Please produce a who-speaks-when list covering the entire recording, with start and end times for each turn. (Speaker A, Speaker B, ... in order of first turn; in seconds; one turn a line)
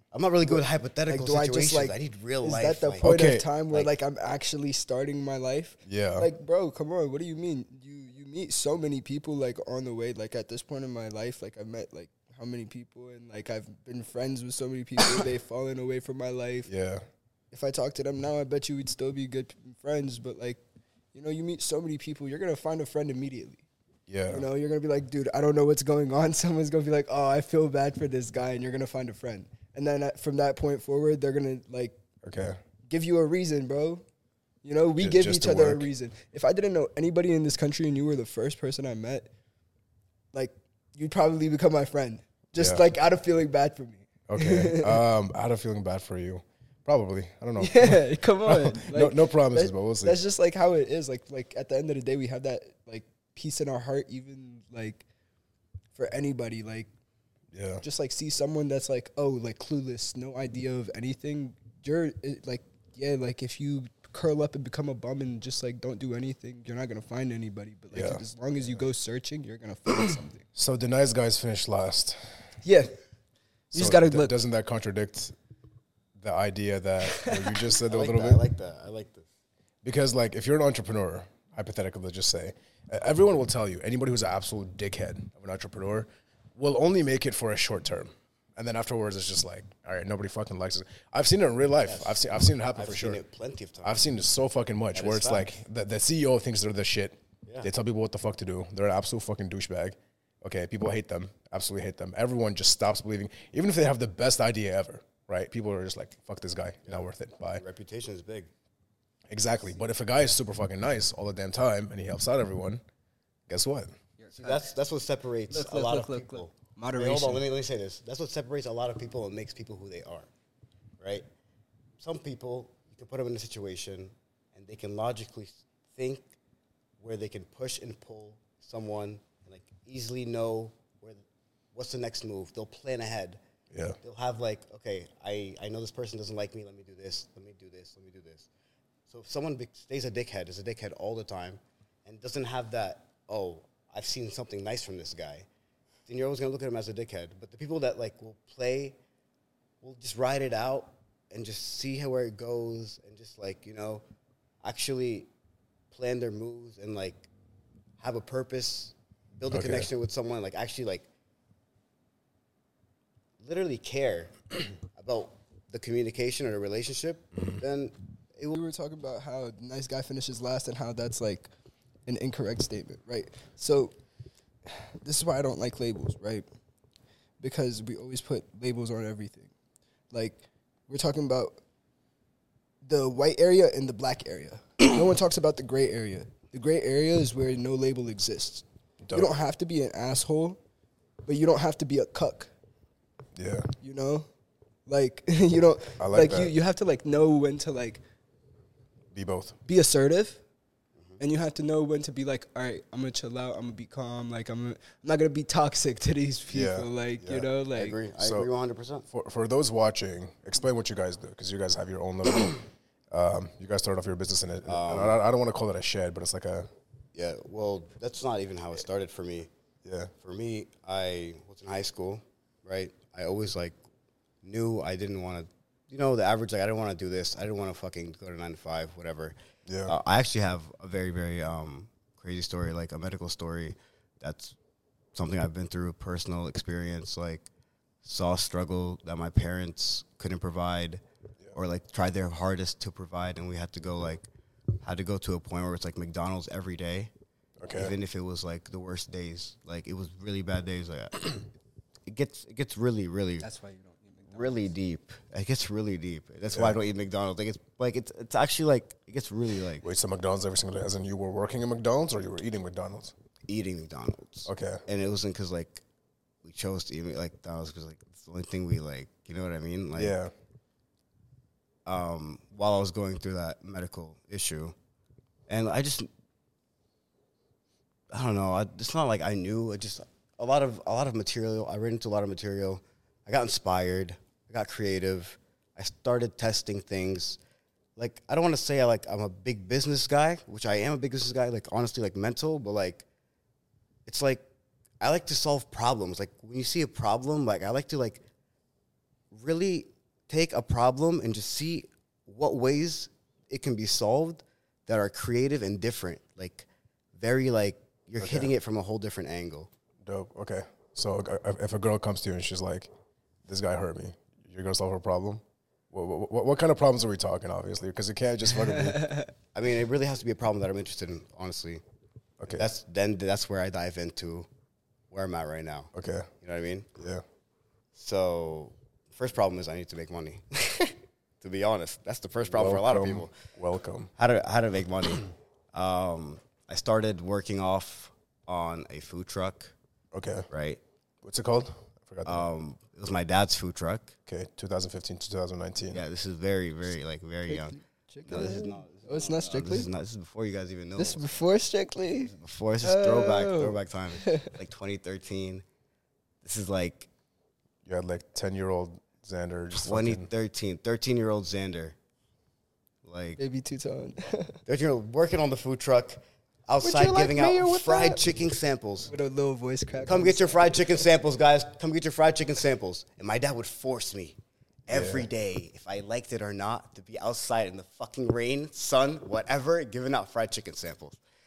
Speaker A: 0.1-3.1
Speaker B: 0.4-16.7
Speaker C: 3.0-3.5
Speaker C: 5.8-6.3
Speaker C: 16.7-17.0
Speaker B: 17.5-20.6
Speaker B: 21.1-23.6
Speaker C: 24.1-24.4
Speaker B: 24.3-31.9
Speaker C: 32.2-32.6
Speaker B: 32.9-34.0
Speaker B: 34.6-39.3
Speaker C: 35.0-35.9
Speaker B: 40.3-45.0
Speaker C: 42.6-42.8
Speaker C: 44.3-50.2
Speaker B: 47.6-55.0
Speaker B: 55.9-56.9
Speaker C: 57.5-57.8
Speaker B: 57.8-70.4
Speaker C: 67.9-68.2
Speaker C: 70.5-72.5
Speaker B: 72.6-73.0
Speaker B: 73.7-74.3
Speaker C: 73.7-75.3
Speaker C: 76.2-78.4
Speaker B: 77.1-77.5
Speaker A: 77.9-79.3
Speaker C: 79.8-93.2
Speaker A: 91.8-92.2
Speaker A: 92.7-94.0
Speaker C: 93.8-107.6
Speaker A: 94.9-95.5
Speaker A: 106.8-108.5
Speaker C: 109.3-112.8
Speaker C: 113.5-113.9
Speaker B: 114.2-114.7
Speaker A: 114.3-120.3
Speaker B: 115.5-117.4
Speaker A: 121.0-121.3
Speaker A: 122.0-126.3
Speaker A: 127.0-133.4
Speaker C: 133.7-134.0
Speaker A: 134.0-138.5
Speaker A: 139.1-145.5
Speaker A: 146.1-149.0
Speaker A: 149.8-154.0
Speaker A: 154.6-155.3
Speaker A: 155.9-157.3
Speaker A: 158.0-161.1
Speaker C: 159.5-159.9
Speaker A: 163.4-168.6
Speaker B: 168.5-171.5
Speaker B: 172.1-173.9
Speaker B: 174.7-176.4
Speaker B: 177.4-179.5
Speaker B: 180.1-181.6
Speaker B: 182.8-190.6
Speaker C: 189.0-189.3
Speaker B: 191.2-192.5
Speaker C: 193.3-193.7
Speaker B: 193.8-194.3
Speaker B: 194.9-198.0
Speaker C: 196.0-196.5
Speaker C: 199.1-199.6
Speaker B: 199.7-200.4
Speaker B: 201.2-208.0
Speaker C: 206.5-207.5
Speaker A: 207.8-209.1
Speaker C: 208.2-208.5
Speaker C: 209.1-216.7
Speaker A: 214.6-215.2
Speaker A: 217.1-219.5
Speaker C: 219.8-220.1
Speaker A: 220.2-223.8
Speaker A: 224.4-229.3
Speaker C: 229.7-229.9
Speaker A: 229.8-234.6
Speaker A: 235.1-237.5
Speaker A: 238.0-241.0
Speaker A: 241.5-244.3
Speaker A: 244.8-247.1
Speaker C: 247.6-247.9
Speaker A: 247.7-251.5
Speaker A: 252.1-253.4
Speaker B: 253.4-254.7
Speaker A: 254.3-259.8
Speaker C: 256.5-256.8
Speaker C: 259.8-263.1
Speaker A: 263.5-265.8
Speaker C: 264.4-264.8
Speaker A: 266.4-270.1
Speaker C: 269.9-270.3
Speaker A: 271.9-274.8
Speaker A: 275.5-276.1
Speaker A: 278.1-287.4
Speaker A: 287.9-293.1
Speaker A: 294.1-294.4
Speaker A: 295.0-298.2
Speaker A: 299.3-309.7
Speaker C: 308.2-308.5
Speaker C: 310.1-312.9
Speaker C: 313.4-319.0
Speaker B: 319.0-319.2
Speaker A: 319.5-321.8
Speaker C: 322.4-322.7
Speaker A: 322.5-324.5
Speaker A: 325.1-326.9
Speaker C: 325.9-326.3
Speaker C: 327.0-327.2
Speaker A: 327.9-333.3
Speaker C: 332.5-334.1
Speaker A: 334.2-339.8
Speaker C: 340.1-340.5
Speaker A: 340.5-340.8
Speaker C: 341.2-342.4
Speaker A: 342.2-344.1
Speaker C: 344.2-346.0
Speaker A: 345.9-351.2
Speaker B: 347.5-349.9
Speaker B: 351.0-354.5
Speaker A: 352.2-355.6
Speaker A: 356.4-357.1
Speaker C: 357.8-360.3
Speaker A: 359.7-361.9
Speaker A: 363.0-363.4
Speaker B: 363.4-364.6
Speaker A: 364.6-369.1
Speaker B: 366.8-368.4
Speaker B: 369.1-370.8
Speaker A: 370.0-381.2
Speaker C: 374.9-375.3